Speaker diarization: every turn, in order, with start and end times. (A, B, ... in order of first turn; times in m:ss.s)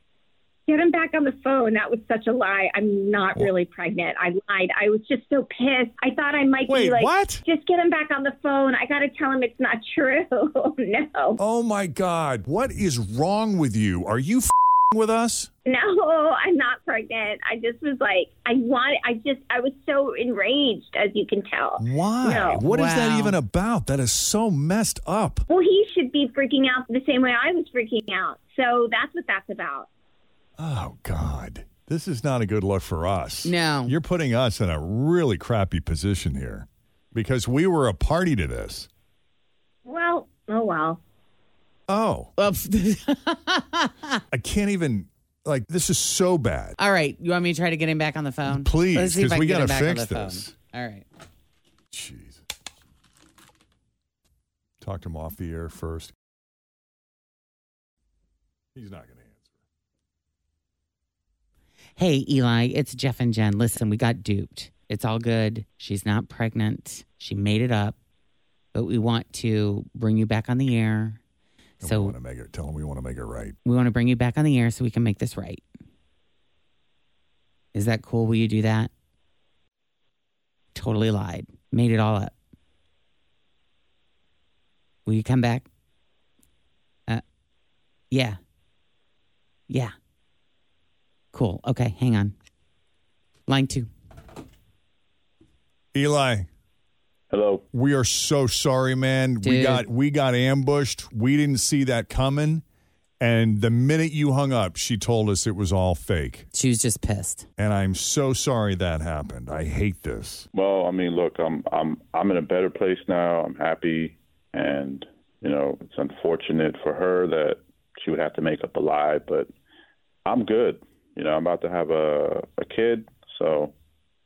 0:00.7-0:11.4 A
0:06.7-0:07.4 B
0:11.4-0:15.5 B
0:15.7-0:22.6 A
0:21.8-0:25.4 B
0:22.6-0:23.4 C
0:25.5-0:29.9 A
0:30.6-0:38.9 B
0:33.4-0:33.9 C
0:39.9-0:41.0 A
0:41.9-0:42.3 B
0:42.4-0:44.2 C
0:44.3-0:46.8 B
0:46.8-0:51.1 C
0:48.5-0:50.5 B
0:51.9-0:52.4 B
0:54.8-0:56.1 B
0:58.7-0:59.4 B
1:02.0-1:08.0 C
1:08.7-1:11.2 C
1:11.8-1:13.6 B
1:11.8-1:12.1 C
1:13.6-1:15.6 C
1:17.7-1:18.9 C
1:20.7-1:22.3 C
1:25.1-1:25.7 C
1:28.1-1:28.4 C
1:29.7-1:29.9 C
1:31.3-1:32.4 C
1:33.5-1:33.9 C
1:35.9-1:36.5 B
1:37.3-1:37.6 D
1:37.7-1:42.6 B
1:39.4-1:39.8 C
1:43.2-1:46.5 B
1:46.5-1:47.5 C
1:47.6-1:50.5 B
1:50.5-1:59.5 D
2:00.2-2:03.7 D